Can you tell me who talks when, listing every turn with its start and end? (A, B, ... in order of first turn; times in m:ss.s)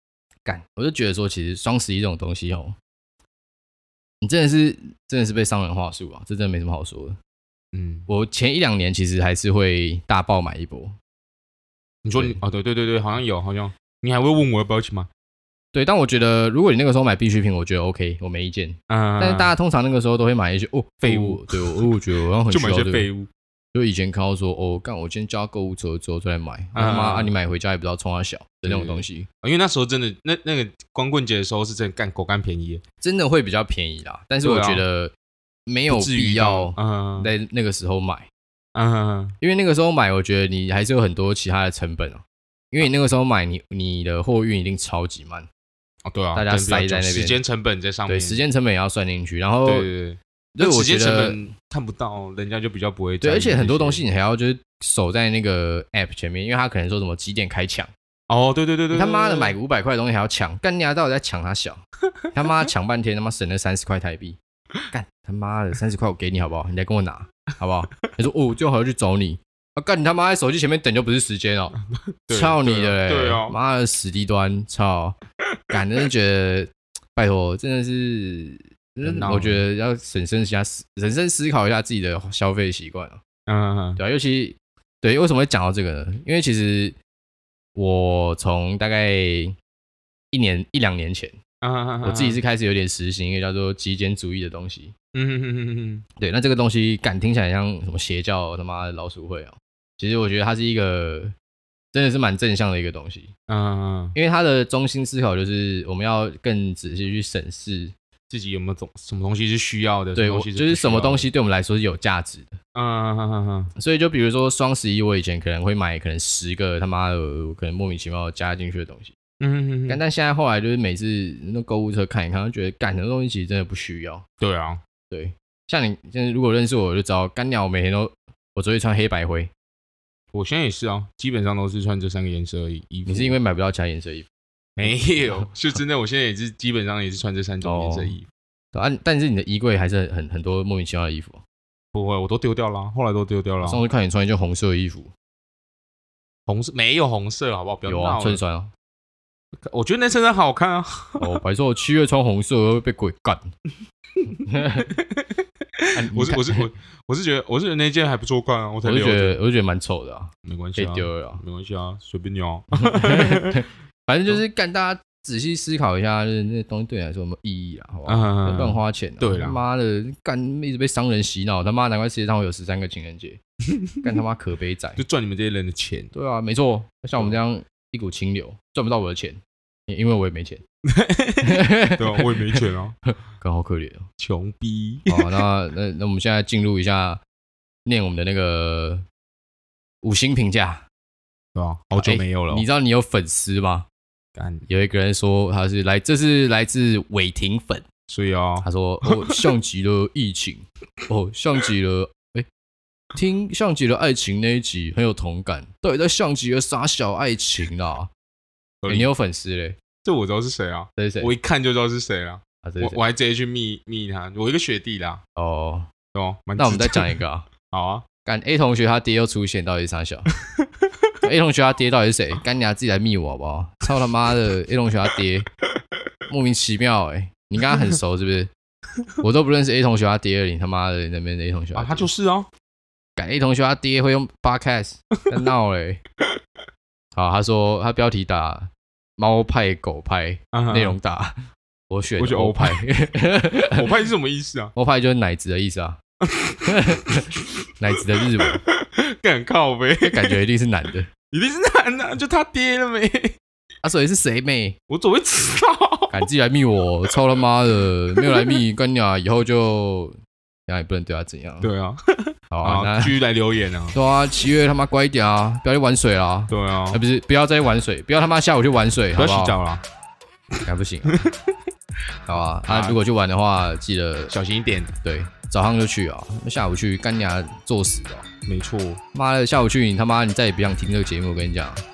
0:00.4-0:02.7 A
0:04.2-0:07.2 A
0:07.7-0:08.1 B
0:08.1-0:10.9 A
0:12.0-0:15.1 B
0:15.7-0:23.1 A
0:18.9-0:19.5 B
0:21.0-0:21.9 B
0:22.4-0:23.3 B
0:23.7-0:29.3 A
0:26.8-0:27.3 B
0:28.6-0:32.8 B
0:33.0-0:35.1 A
0:34.4-0:34.8 B
0:35.7-0:38.3 A
0:35.9-0:37.3 B
0:38.7-0:39.4 B
0:39.4-0:45.5 A
0:46.1-0:48.4 B
0:46.4-0:47.4 A
0:48.1-0:49.9 A
0:49.6-0:54.0 B
0:50.6-0:51.4 A
0:53.2-0:57.9 A
0:58.3-0:59.6 B
0:58.9-1:01.8 A
1:02.3-1:04.4 A
1:04.9-1:11.8 A
1:11.9-1:13.6 B
1:12.3-1:15.2 A
1:15.7-1:23.2 A
1:19.0-1:19.6 B
1:23.5-1:24.0 B
1:24.0-1:27.0 A
1:27.7-1:29.6 A
1:30.3-1:31.4 A
1:31.6-1:32.4 B
1:32.0-1:34.9 A
1:35.1-1:36.0 B
1:36.2-1:41.3 A
1:41.9-1:43.3 A
1:43.5-1:44.2 B
1:44.1-1:47.9 A
1:48.3-1:51.3 B
1:50.1-1:52.6 A
1:52.7-1:53.7 B
1:53.8-1:59.1 A
1:59.4-2:00.0 B
1:59.9-2:04.2 A
2:04.4-2:04.8 B
2:05.1-2:09.5 A
2:10.3-2:13.4 B
2:13.1-2:14.3 A
2:14.8-2:18.3 B
2:17.6-2:18.2 A
2:18.7-2:21.4 A
2:21.9-2:23.8 B
2:23.6-2:25.1 A
2:26.5-2:28.4 B
2:27.9-2:28.7 A
2:29.6-2:31.4 B
2:31.2-2:33.5 A
2:34.2-2:39.4 B
2:34.4-2:34.9 A
2:35.9-2:36.7 A
2:38.8-2:41.4 A
2:40.4-2:43.6 B
2:42.8-2:53.4 A
2:48.1-2:49.6 B
2:53.7-2:54.0 B
2:54.0-2:55.0 A
2:55.0-2:56.1 B
2:56.1-3:00.6 A
3:00.9-3:02.9 B
3:01.4-3:02.6 A
3:03.4-3:04.1 A
3:04.2-3:05.4 B
3:05.1-3:07.2 A
3:07.8-3:09.0 A
3:10.0-3:10.8 A
3:11.6-3:12.6 B
3:12.0-3:13.9 A
3:14.4-3:14.6 B
3:14.7-3:17.8 A
3:18.1-3:19.4 B
3:18.6-3:22.5 A
3:23.1-3:28.1 A
3:28.8-3:29.1 B
3:28.9-3:29.8 A
3:30.0-3:35.2 B
3:31.0-3:31.3 A
3:32.6-3:33.0 A
3:35.4-3:35.9 A
3:36.1-3:38.0 B
3:36.6-3:37.5 A
3:38.2-3:40.3 A
3:40.6-3:41.1 B
3:41.2-3:45.5 A
3:46.3-3:48.5 A
3:49.2-3:52.1 A
3:51.7-3:52.5 B
3:53.2-3:56.0 A
3:57.1-4:03.9 A
4:00.5-4:01.0 B
4:02.2-4:02.8 B
4:03.6-4:04.7 B
4:04.8-4:06.0 A
4:06.2-4:06.9 B
4:06.6-4:08.6 A
4:08.4-4:10.4 B
4:10.0-4:11.1 A
4:11.3-4:13.4 B
4:13.8-4:14.8 A
4:14.9-4:16.1 B
4:16.1-4:20.1 A
4:18.2-4:18.6 B
4:20.7-4:21.7 A
4:21.6-4:24.0 B
4:22.5-4:23.2 A
4:23.9-4:29.6 A
4:26.5-4:27.0 B
4:29.2-4:29.8 B
4:30.6-4:31.2 A
4:31.1-4:31.3 B
4:32.3-4:34.3 A
4:32.6-4:33.0 B
4:34.3-4:34.9 B
4:35.0-4:38.3 A
4:38.4-4:39.0 B
4:39.1-4:41.8 A